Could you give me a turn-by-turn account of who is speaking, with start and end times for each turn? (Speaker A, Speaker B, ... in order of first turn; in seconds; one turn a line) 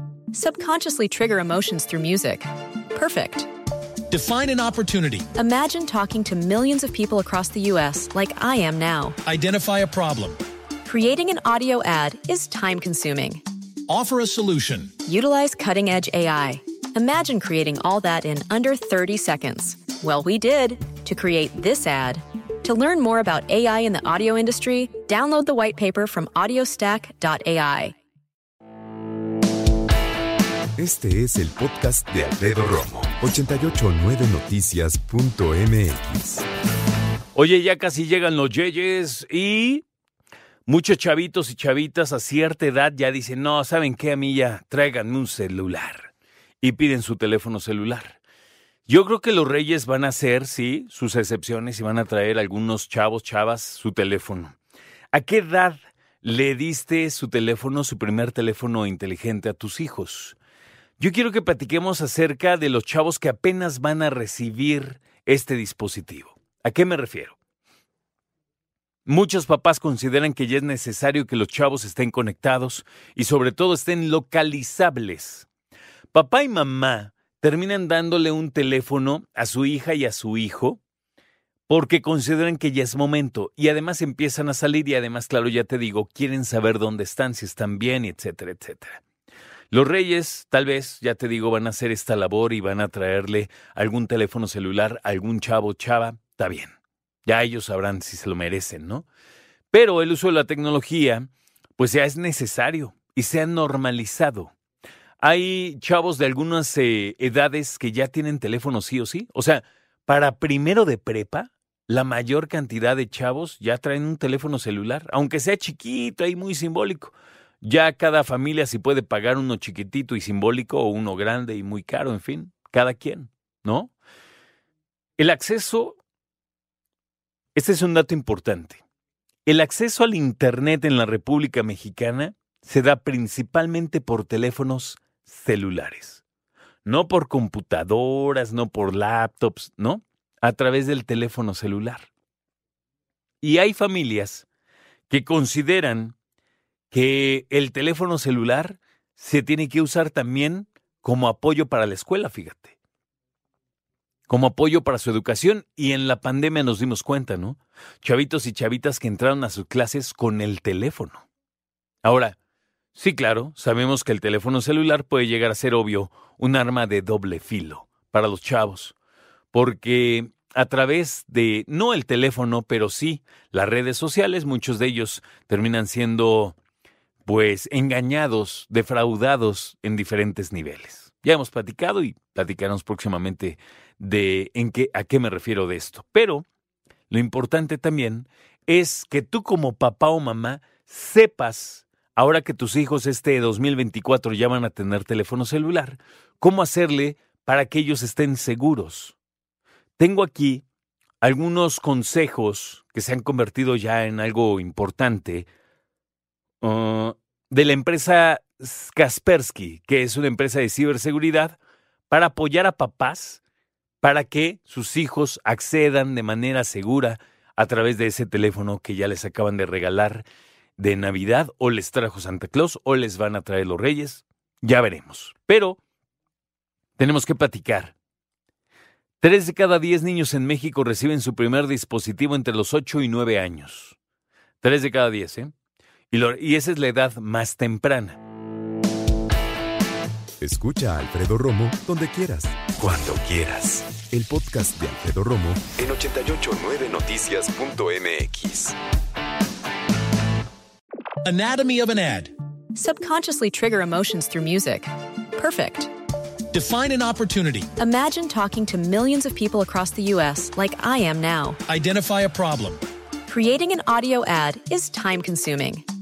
Speaker A: 0.3-3.5
Speaker B: 4.1-5.3
Speaker A: 5.3-9.2
Speaker B: 9.3-10.4
Speaker A: 10.8-13.4
Speaker B: 13.9-14.9
Speaker A: 15.0-27.9
Speaker C: 30.8-36.4
Speaker D: 37.3-39.9
Speaker D: 40.7-48.2
Speaker D: 48.9-54.6
Speaker D: 55.1-60.4
Speaker D: 61.0-67.4
Speaker D: 69.1-75.5
Speaker D: 76.1-80.8
Speaker D: 81.7-89.0
Speaker D: 89.7-96.8
Speaker D: 97.3-99.1
Speaker D: 99.7-104.5
Speaker D: 105.2-123.9
Speaker D: 125.2-126.0
Speaker D: 127.5-128.8
Speaker D: 129.5-136.2
Speaker D: 136.8-142.1
Speaker D: 143.4-144.5
Speaker D: 145.1-146.2
Speaker D: 146.9-152.8
Speaker D: 154.3-161.2
Speaker D: 162.0-162.4
Speaker D: 162.9-168.9
Speaker D: 169.5-176.6
Speaker D: 177.3-186.5
Speaker D: 187.1-199.2
Speaker D: 200.0-200.6
Speaker D: 201.2-205.5
Speaker D: 206.6-211.6
Speaker D: 212.1-213.4
Speaker D: 214.0-220.3
Speaker D: 220.8-225.8
Speaker D: 227.0-227.9
Speaker D: 229.2-234.0
Speaker D: 234.6-235.5
Speaker D: 236.1-238.2
Speaker C: 240.4-248.8
Speaker B: 251.2-252.3
Speaker A: 252.7-255.9
Speaker B: 256.5-257.7
Speaker A: 257.8-261.6
Speaker B: 261.7-262.8
Speaker A: 263.3-265.8